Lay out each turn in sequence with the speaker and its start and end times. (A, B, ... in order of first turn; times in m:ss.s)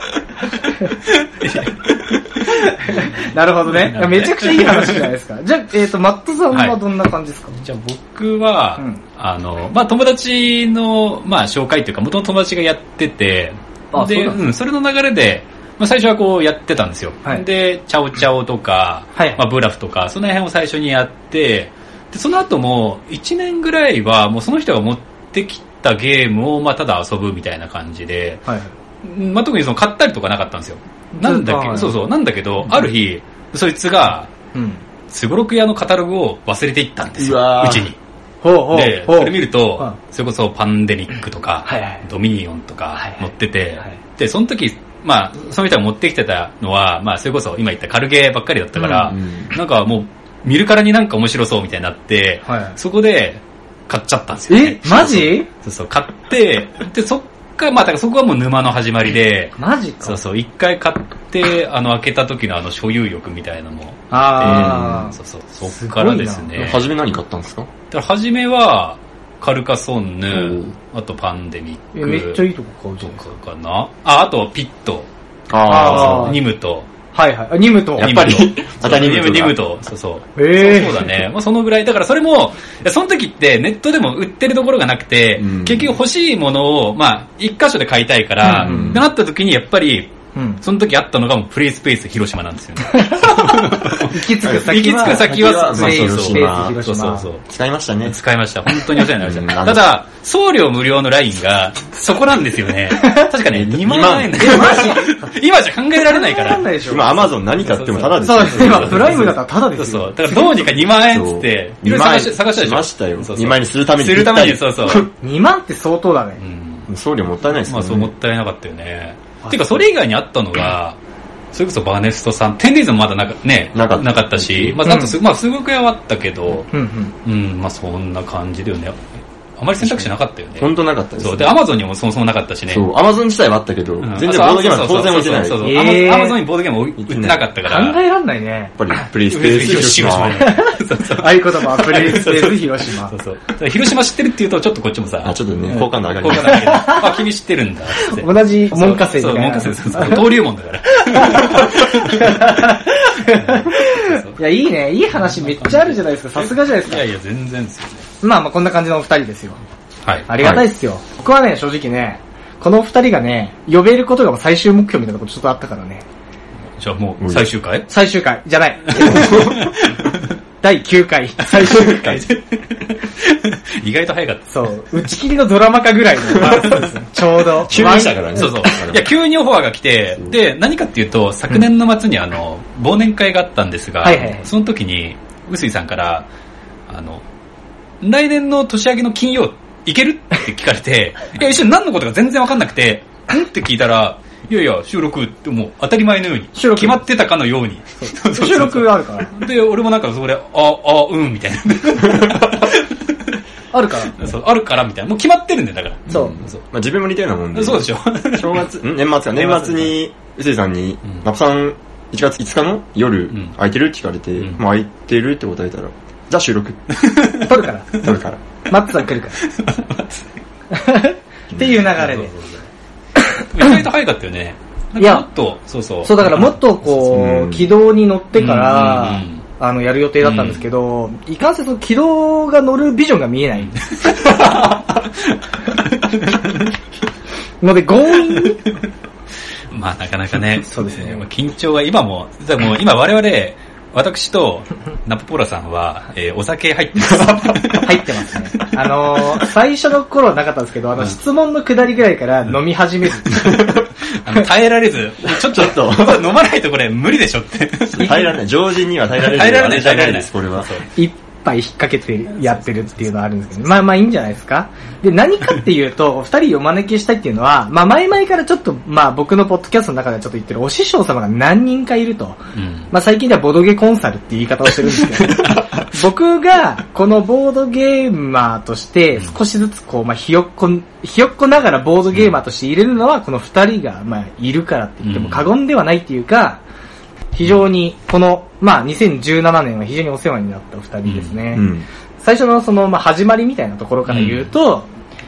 0:00.6-0:01.0 A
0:01.1-0:01.9 B
0:02.5-0:07.6 A
0:02.8-0:03.1 B
0:03.7-0:05.0 B
0:06.5-0:06.8 B
0:07.6-0:28.4 B
0:13.9-0:14.4 A
0:19.2-0:19.4 A
0:29.0-0:34.3 B
0:31.2-0:31.9 A
0:34.5-0:34.8 A
0:35.1-0:38.0 B
0:37.2-0:37.9 C
0:38.4-0:40.0 A
0:38.7-1:06.9 B
0:41.6-0:42.0 A
0:43.0-0:43.2 A
0:48.7-0:49.1 A
0:49.1-0:49.5 C
0:52.4-0:52.8 A
0:54.5-0:55.5 A
0:59.6-1:00.2 A
1:04.1-1:06.6 A
1:04.4-1:05.1 C
1:06.5-1:07.7 C
1:07.9-1:12.4 B
1:10.3-1:10.7 C
1:11.9-1:13.2 A
1:13.0-1:15.1 B
1:15.5-1:16.4 C
1:15.6-1:16.4 A
1:15.6-1:16.9 B
1:17.1-1:18.1 A
1:18.0-1:19.6 C
1:18.0-1:37.4 B
1:20.4-1:21.1 A
1:25.4-1:26.0 C
1:28.4-1:29.0 A
1:28.6-1:29.0 C
1:30.3-1:30.6 A
1:33.0-1:37.3 A
1:34.4-1:36.8 C
1:37.4-1:38.2 C
1:38.0-1:46.7 B
1:39.2-1:39.9 C
1:43.5-1:44.9 C
1:44.4-1:45.3 A
1:46.0-1:47.3 A
1:46.8-1:49.3 C
1:47.6-1:55.1 B
1:48.2-1:50.6 A
1:51.0-1:55.1 C
1:55.2-1:56.4 A
1:56.4-1:56.9 B
1:56.9-1:58.1 C
1:57.6-2:01.0 B
1:59.4-1:59.8 A
2:01.5-2:06.7 B
2:03.7-2:04.8 C
2:04.8-2:05.1 A
2:06.7-2:07.1 A
2:07.2-2:12.8 B
2:09.8-2:11.5 C
2:12.7-2:15.8 C
2:14.0-2:18.0 B
2:15.6-2:16.4 A
2:17.0-2:17.4 C
2:17.6-2:19.0 A
2:18.8-2:20.5 C
2:19.3-2:25.4 B
2:20.4-2:23.1 A
2:25.2-2:26.8 C
2:25.8-2:27.2 A
2:26.1-2:32.5 B
2:27.9-2:30.3 A
2:31.1-2:37.0 A
2:33.2-2:34.4 B
2:35.2-2:38.0 B
2:38.2-2:39.6 A
2:40.0-2:40.3 B
2:40.3-2:46.0 A
2:40.4-2:40.6 C
2:46.8-2:47.9 B
2:47.2-2:47.4 C
2:47.9-2:49.5 A
2:49.0-2:49.7 C
2:49.0-2:50.1 B
2:50.6-2:52.2 A
2:51.5-2:54.5 B
2:51.6-2:52.2 C
2:54.5-2:58.9 A
2:56.4-2:56.8 C
2:57.6-2:59.1 C
2:57.8-3:06.3 B
3:04.0-3:04.5 A
3:06.9-3:07.2 B
3:08.0-3:23.4 B
3:16.6-3:17.0 A
3:18.0-3:19.3 A
3:23.7-3:24.3 A
3:24.1-3:26.6 B
3:26.1-3:36.8 C
3:26.1-3:26.4 A
3:27.5-3:28.6 B
3:29.4-3:29.9 B
3:37.0-3:37.5 B
3:37.4-3:37.9 A
3:38.0-3:38.4 C
3:38.7-3:39.4 A
3:39.4-3:40.2 B
3:40.7-3:42.3 A
3:42.0-3:42.7 B
3:43.2-3:43.7 A
3:43.5-3:46.5 B
3:45.0-3:45.2 A
3:46.0-3:54.1 A
3:47.1-3:47.7 C
3:48.3-3:49.4 B
3:50.2-3:50.7 B
3:53.7-3:56.4 B
3:57.6-3:58.6 A
3:59.7-4:08.0 B
4:00.7-4:01.2 A
4:07.1-4:07.6 C
4:07.8-4:13.6 A
4:14.2-4:18.3 B
4:15.2-4:16.3 C
4:17.9-4:20.7 C
4:19.2-4:20.8 B
4:21.0-4:46.6 A
4:32.5-4:32.9 B
4:45.0-4:45.5 B
4:47.3-4:51.6 A
4:51.1-4:51.4 B
4:51.5-4:51.8 C
4:52.2-4:54.9 A
4:54.1-4:54.5 B